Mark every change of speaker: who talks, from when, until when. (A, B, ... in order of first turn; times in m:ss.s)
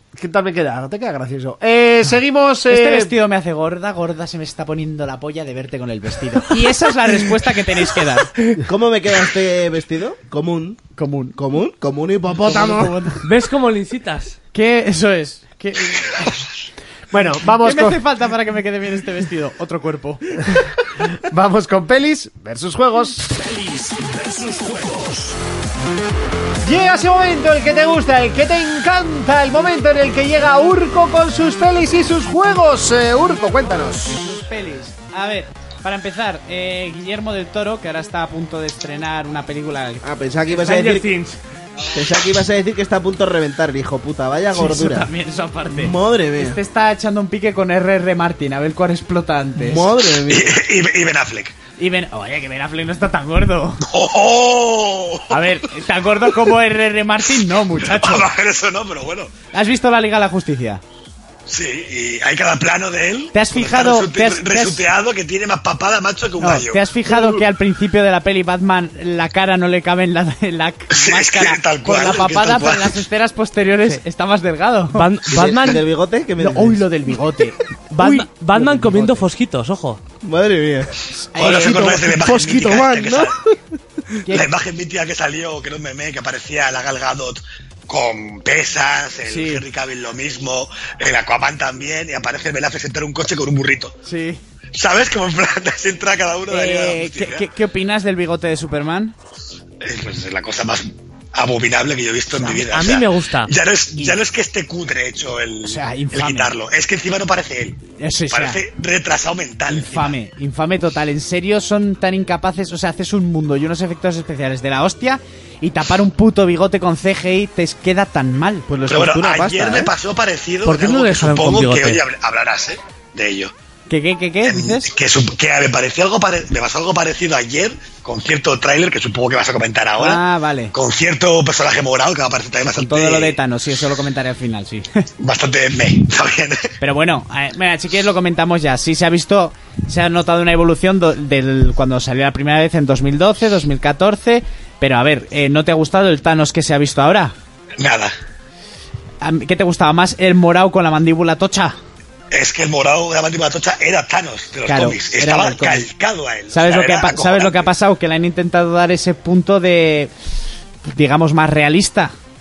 0:00.1-0:03.1 A
0:02.7-0:08.3 B
0:08.6-0:10.8 C
0:11.0-0:11.4 B
0:11.4-0:13.0 C
0:12.4-0:13.2 B
0:13.2-0:14.4 D
0:14.5-0:16.3 B
0:17.1-0:18.0 A
0:17.6-0:20.4 B
0:21.2-0:23.6 A
0:26.6-0:34.2 A
0:34.1-0:40.1 B
0:40.0-0:41.1 C
0:40.5-0:41.4 D
0:41.9-0:45.1 C
0:44.5-0:49.9 B
0:45.7-0:46.6 C
0:49.6-0:50.6 C
0:50.3-0:51.6 E
0:51.8-0:53.8 B
0:53.8-0:55.5 E
0:55.3-0:58.3 B
0:57.8-0:59.3 E
0:59.5-1:00.8 B
1:01.5-1:06.8 E
1:03.3-1:04.8 B
1:06.4-1:15.1 B
1:10.9-1:13.0 E
1:14.9-1:15.8 D
1:15.3-1:16.9 C
1:16.4-1:19.2 B
1:17.9-1:20.0 D
1:20.2-1:20.9 C
1:21.3-1:23.2 B
1:21.4-1:23.4 E
1:24.3-1:33.9 E
1:29.2-1:29.6 B
1:34.0-1:34.4 B
1:34.7-1:37.4 E
1:36.5-1:39.1 B
1:39.8-1:47.8 E
1:42.7-1:43.5 D
1:45.6-1:46.5 B
1:48.0-1:48.6 B
1:48.3-1:50.1 E
1:49.7-1:58.7 B
1:58.7-1:59.9 C
1:58.9-2:03.5 E
2:00.6-2:02.0 D
2:03.9-2:04.9 B
2:04.4-2:13.4 E
2:10.0-2:10.7 B
2:12.8-2:15.1 B
2:15.2-2:16.7 E
2:16.8-2:27.3 B
2:27.8-2:28.1 E
2:29.2-2:31.8 B
2:32.3-2:37.7 E
2:34.7-2:35.8 B
2:36.5-2:40.1 B
2:40.9-2:42.1 B